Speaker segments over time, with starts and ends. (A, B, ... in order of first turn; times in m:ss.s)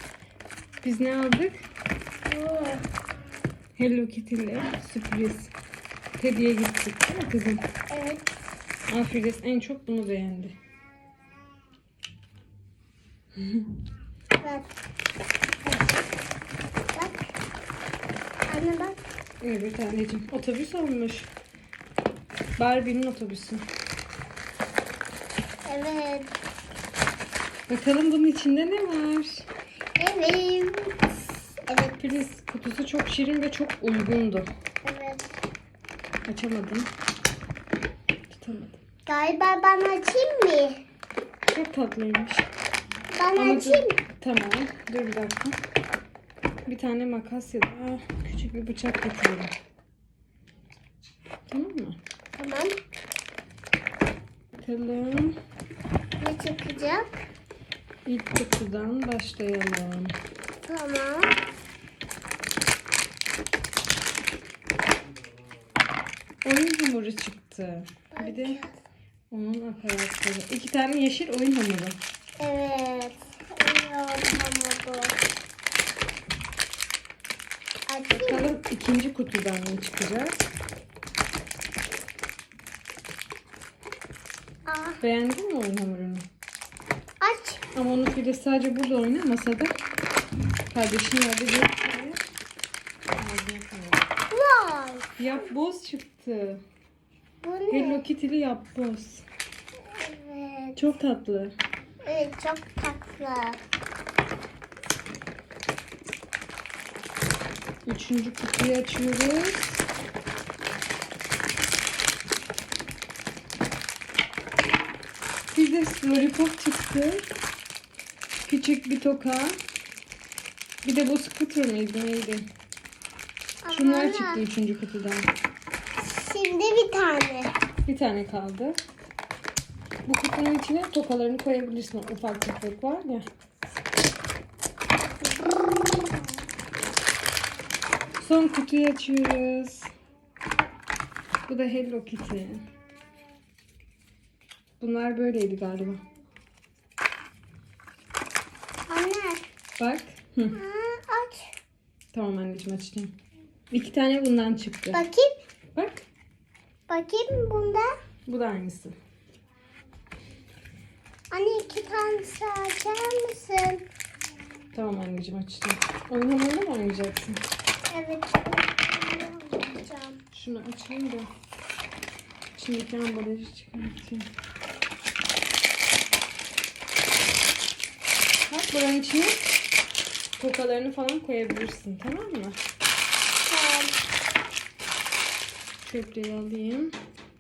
0:00.8-0:01.7 A
0:02.2-0:02.8 B
0:03.8-0:05.5 A
0:06.2-0:07.7 A
0:07.9-0:08.3 B
0:08.9-0:10.5 A
0:13.4-0:13.7 A
0:14.4-0:14.7 B
0:18.5-0:19.0 B
0:19.4-0:21.3 A
0:22.6-0:23.7 A
0:25.6-0:26.3 B
0:27.7-0:29.5 A
0:30.0-0:32.0 B
0:32.0-0:34.5 A
0:34.8-0:35.3 B
0:36.2-0:36.9 A
0:38.3-0:38.8 A
0:39.1-0:40.8 B
0:41.5-0:42.5 A
0:43.1-0:44.0 B
0:43.3-0:45.6 A
0:46.7-0:49.5 A
0:51.5-0:52.0 A
0:52.4-0:52.7 B
0:54.6-0:55.4 A
0:56.2-0:57.2 B
0:58.0-1:00.2 A
1:00.6-1:01.3 B
1:06.4-1:08.6 A
1:08.1-1:08.8 B
1:09.3-1:12.0 A
1:12.4-1:15.2 B
1:17.9-1:18.5 B
1:18.1-1:20.4 A
1:24.6-1:25.0 B
1:25.0-1:26.2 A
1:27.2-1:27.6 B
1:27.7-1:29.7 A
1:30.7-1:32.3 A
1:33.2-1:34.0 A
1:34.3-1:35.2 B
1:35.2-1:36.6 A
1:37.4-1:38.0 B
1:37.7-1:39.2 A
1:39.9-1:40.8 B
1:40.8-1:41.5 A
1:42.0-1:43.6 B
1:47.8-1:49.8 A
1:55.5-1:57.3 A
1:58.4-1:59.6 A
2:00.8-2:02.4 A
2:03.6-2:04.4 B
2:03.7-2:05.3 A
2:06.0-2:07.5 B
2:07.8-2:08.8 A
2:10.0-2:13.2 A
2:15.3-2:16.1 B
2:18.2-2:19.9 A
2:21.5-2:22.6 A
2:24.8-2:26.0 A
2:28.9-2:29.4 B
2:29.8-2:30.6 A
2:30.5-2:31.5 B
2:32.1-2:33.1 A
2:33.7-2:35.0 A
2:34.9-2:35.3 B
2:35.7-2:36.0 A
2:36.9-2:37.9 B
2:38.2-2:38.9 A
2:41.3-2:43.8 B
2:44.7-2:47.4 A
2:47.9-2:50.2 B
2:50.3-2:51.3 A
2:52.5-2:54.3 A
2:58.4-2:59.4 A
3:00.4-3:02.6 A
3:03.5-3:04.0 B
3:05.8-3:06.9 A